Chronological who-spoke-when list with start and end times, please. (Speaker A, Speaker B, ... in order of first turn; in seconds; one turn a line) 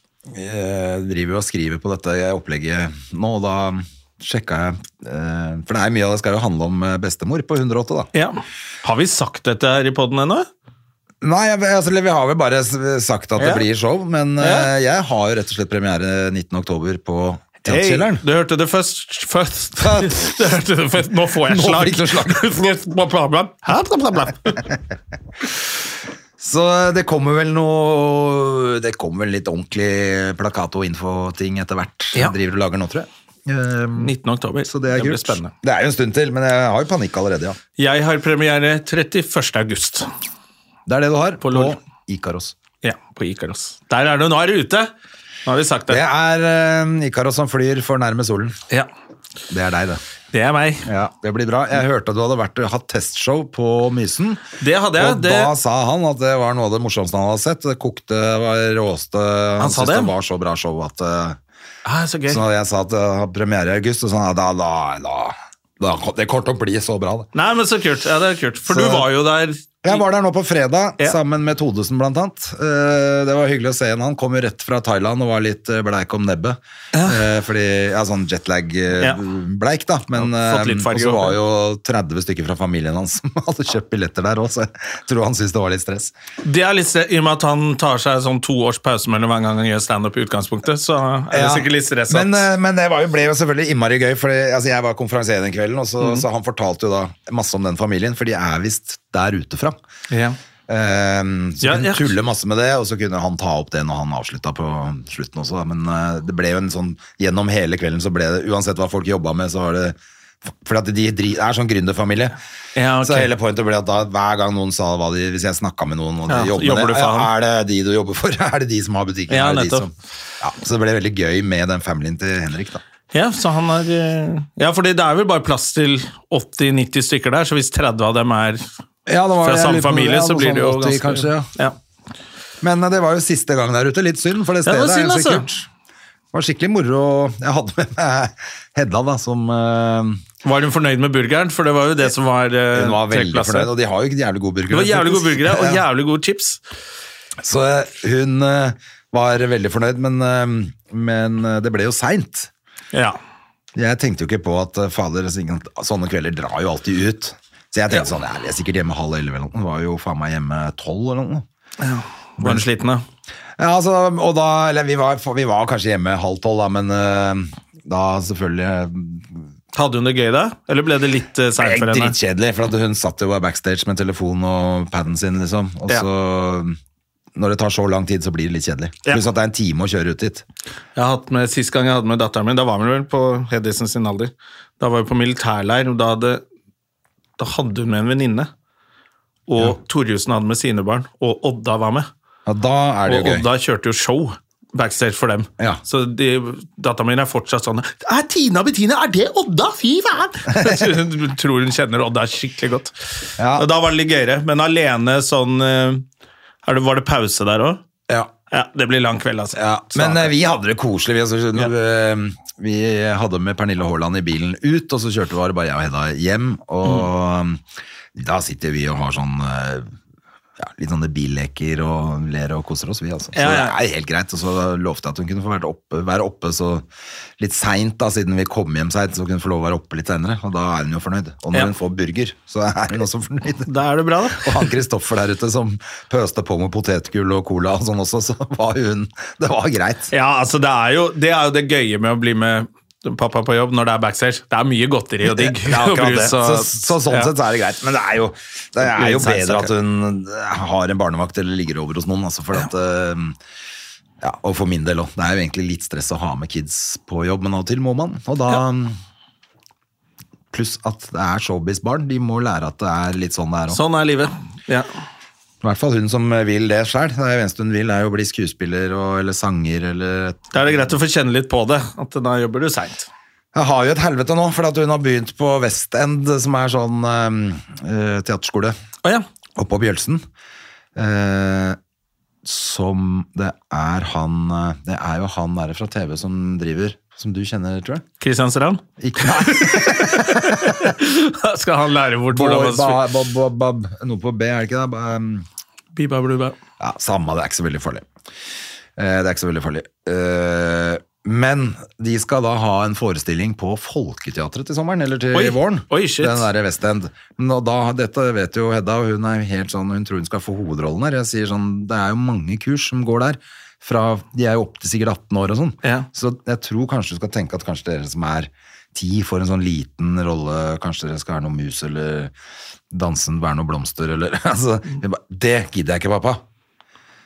Speaker A: 0.3-8.1
Speaker B: 8.1-10.5
Speaker A: 11.2-18.2
Speaker B: 13.4-13.7
Speaker B: 14.4-14.7
Speaker B: 17.6-24.7
Speaker A: 19.8-20.4
Speaker A: 21.4-22.4
Speaker A: 26.4-37.6
Speaker B: 34.0-35.5
Speaker B: 37.8-40.1
Speaker A: 40.9-42.5
Speaker B: 41.4-41.8
Speaker B: 42.8-44.9
Speaker B: 45.5-46.0
Speaker A: 45.9-48.6
Speaker A: 49.5-50.0
Speaker B: 50.3-50.9
Speaker A: 50.9-54.4
Speaker B: 54.6-55.5
Speaker A: 55.0-61.4
Speaker B: 59.6-60.1
Speaker B: 61.9-62.4
Speaker A: 62.3-67.3
Speaker B: 67.3-70.0
Speaker A: 68.7-69.1
Speaker A: 69.8-86.1
Speaker B: 76.9-77.2
Speaker B: 80.1-81.4
Speaker B: 86.4-92.5
Speaker A: 91.3-99.8
Speaker B: 100.1-100.4
Speaker A: 100.7-112.4
Speaker B: 101.6-102.1
Speaker B: 112.8-113.3
Speaker A: 113.0-122.8
Speaker B: 116.3-117.3
Speaker B: 119.3-119.9
Speaker B: 123.1-128.7
Speaker A: 129.1-131.5
Speaker B: 129.4-131.8
Speaker A: 132.6-135.7
Speaker B: 134.6-135.5
Speaker A: 136.3-140.2
Speaker B: 140.4-143.7
Speaker A: 142.7-145.8
Speaker B: 144.7-146.6
Speaker A: 147.4-152.5
Speaker A: 153.8-161.4
Speaker B: 161.8-163.0
Speaker A: 162.4-162.7
Speaker A: 163.6-169.4
Speaker B: 169.7-172.1
Speaker A: 171.6-176.8
Speaker A: 177.3-180.4
Speaker B: 180.9-186.4
Speaker B: 187.4-188.5
Speaker B: 189.5-192.1
Speaker A: 192.4-193.4
Speaker B: 193.1-202.9
Speaker A: 200.5-200.9
Speaker A: 203.4-203.7
Speaker B: 203.6-206.1
Speaker B: 206.6-207.8
Speaker B: 208.5-210.3
Speaker A: 209.6-217.6
Speaker A: 218.1-219.9
Speaker A: 220.6-226.9
Speaker B: 223.3-223.8
Speaker A: 227.4-233.7
Speaker B: 233.7-234.7
Speaker A: 234.3-240.1
Speaker B: 240.1-247.3
Speaker A: 245.2-253.4
Speaker B: 248.8-249.7
Speaker A: 254.2-259.0
Speaker A: 260.5-263.8
Speaker B: 263.7-264.9
Speaker A: 265.6-270.9
Speaker B: 270.5-273.1
Speaker A: 273.5-278.8
Speaker A: 279.6-280.2
Speaker A: 280.9-281.8
Speaker A: 282.4-288.0
Speaker B: 288.2-293.1
Speaker A: 289.0-290.9
Speaker A: 292.3-295.4
Speaker B: 295.9-296.6
Speaker A: 296.8-298.1
Speaker A: 298.9-322.3
Speaker B: 305.3-306.5
Speaker B: 315.8-316.1
Speaker A: 322.9-326.4